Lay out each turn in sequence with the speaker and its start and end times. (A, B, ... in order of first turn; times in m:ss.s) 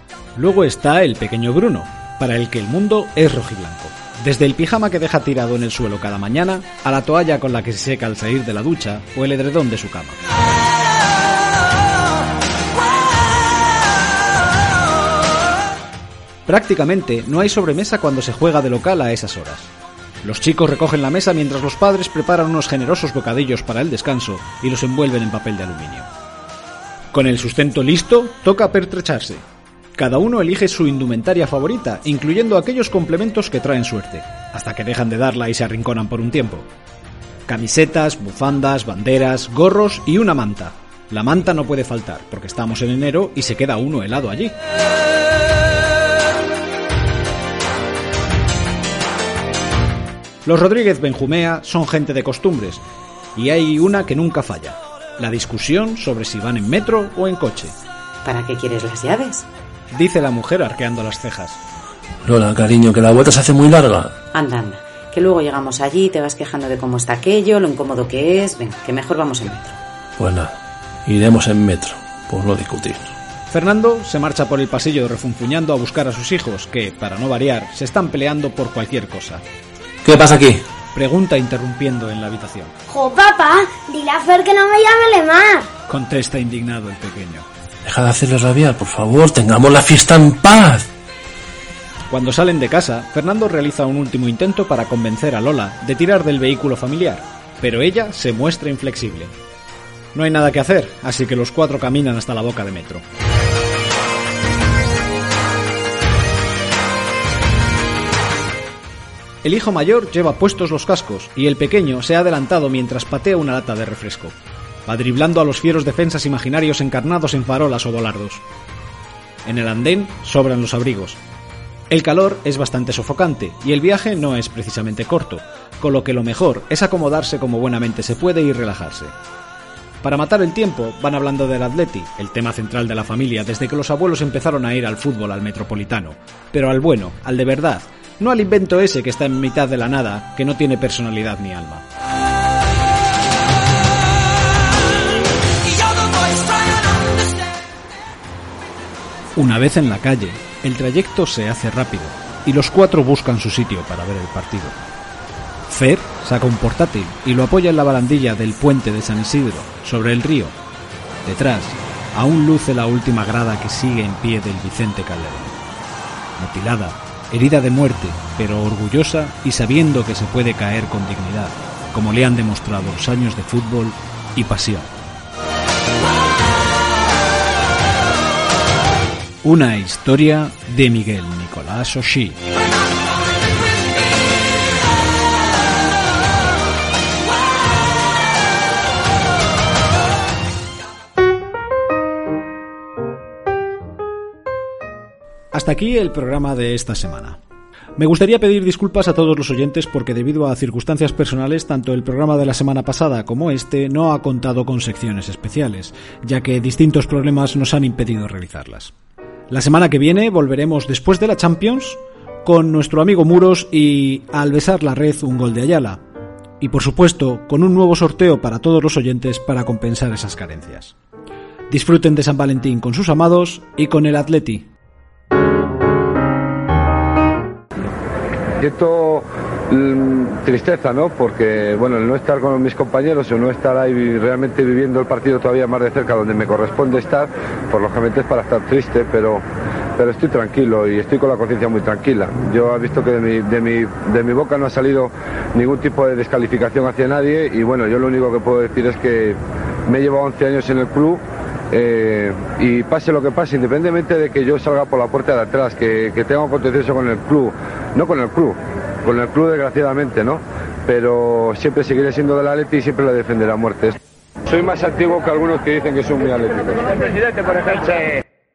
0:00.4-0:10.2 A
0:16.4-0:19.7 A
0:20.2-0:26.1 A
0:27.1-0:29.4 A
0:30.0-0:36.7 A
0:37.5-0:44.6 A
0:50.4-0:52.8 A
0:53.4-0:57.7 A
0:58.2-0:59.4 B
0:59.9-1:01.6 A
1:02.2-1:04.1 C
1:04.3-1:09.7 B
1:10.2-1:10.5 C
1:11.1-1:13.1 C
1:13.5-1:19.4 A
1:20.0-1:20.6 C
1:20.9-1:22.7 A
1:22.9-1:25.7 D
1:25.9-1:27.4 A
1:27.8-1:30.8 C
1:32.1-1:39.3 A
1:40.1-1:43.0 A
1:49.4-1:54.4 A
1:54.8-1:58.4 A
1:59.4-2:01.2 A
2:01.9-2:09.1 A
2:10.0-2:21.8 A
2:29.4-2:34.7 A
2:35.7-2:40.6 A
2:41.2-2:45.6 A
2:46.4-2:54.9 A
2:59.4-3:02.4 A
3:15.5-3:17.4 A
3:18.0-3:28.9 A
3:29.5-3:36.0 A
3:36.6-3:40.9 A
3:41.7-3:44.7 A
3:48.6-3:59.4 E
4:00.0-4:28.2 E